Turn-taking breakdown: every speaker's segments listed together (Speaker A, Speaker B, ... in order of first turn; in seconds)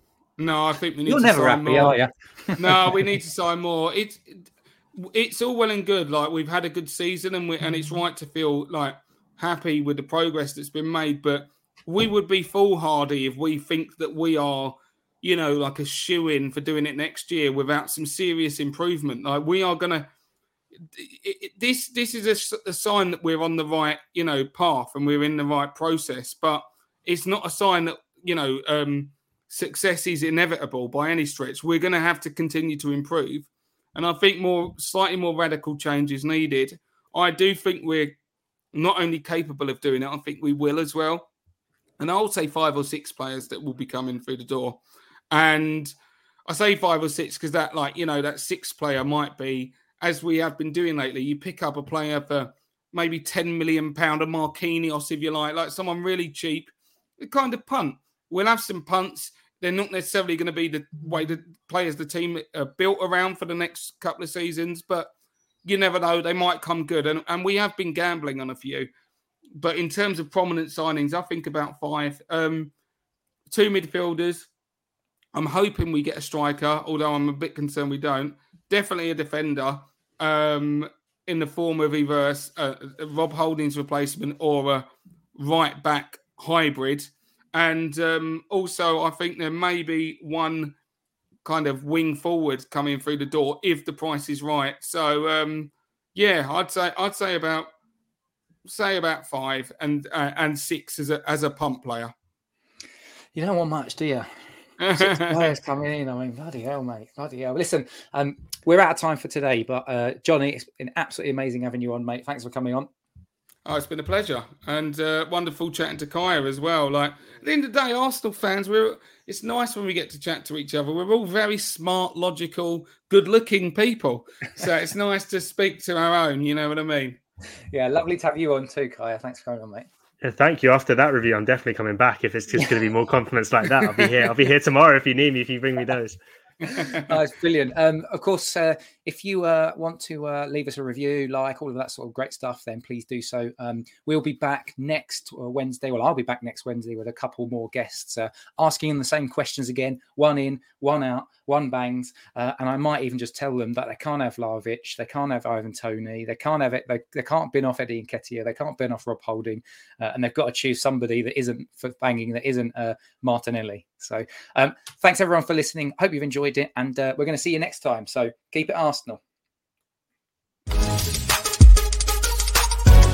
Speaker A: 0.4-2.0, 2.6-20.1, 20.9-38.2, 38.7-41.3, 42.0-44.8, 45.3-45.9, 46.5-65.1, 65.6-68.9, 69.5-72.7, 73.5-74.5, 75.3-90.8, 91.4-97.7, 98.6-102.1, 104.8-105.4, 113.6-127.2
Speaker B: 1.1-3.0, 103.3-104.3, 104.9-112.9, 127.7-129.9, 136.8-169.2
Speaker C: 130.2-136.2